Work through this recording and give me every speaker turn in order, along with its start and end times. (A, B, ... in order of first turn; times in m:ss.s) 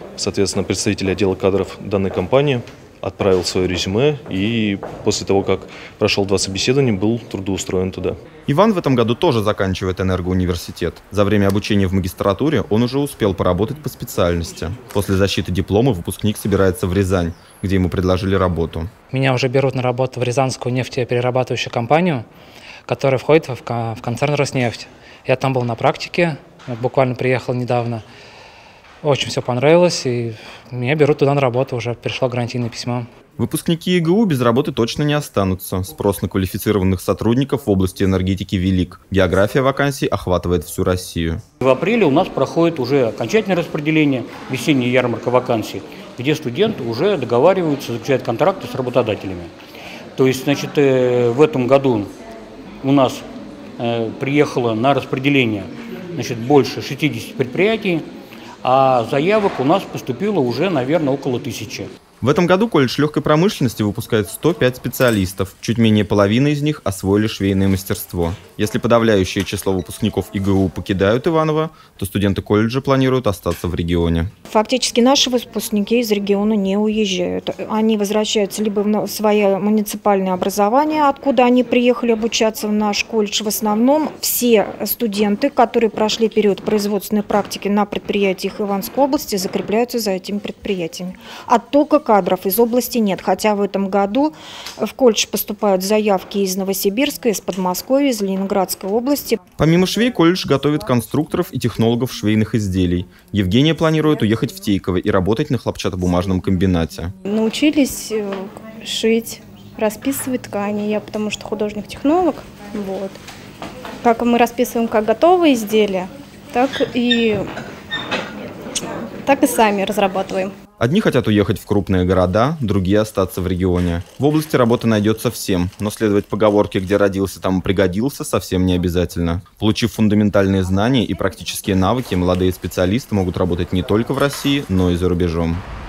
0:00.2-0:08.2 A
0:08.5-0:18.9 B
0:19.1-0:22.2 C
0:22.8-0:28.0 C
0:29.0-0:33.0 C
0:33.4-0:41.4 B
0:41.6-0:49.5 D
0:50.2-0:52.1 D
0:52.8-0:53.2 D
0:53.8-0:58.0 D
0:58.6-1:01.9 D
1:02.2-1:14.3 B
1:14.5-1:39.4 E
1:39.6-1:47.1 B
1:47.2-1:53.2 F
1:54.0-1:57.5 F
1:59.2-2:00.5 F
2:00.8-2:15.6 B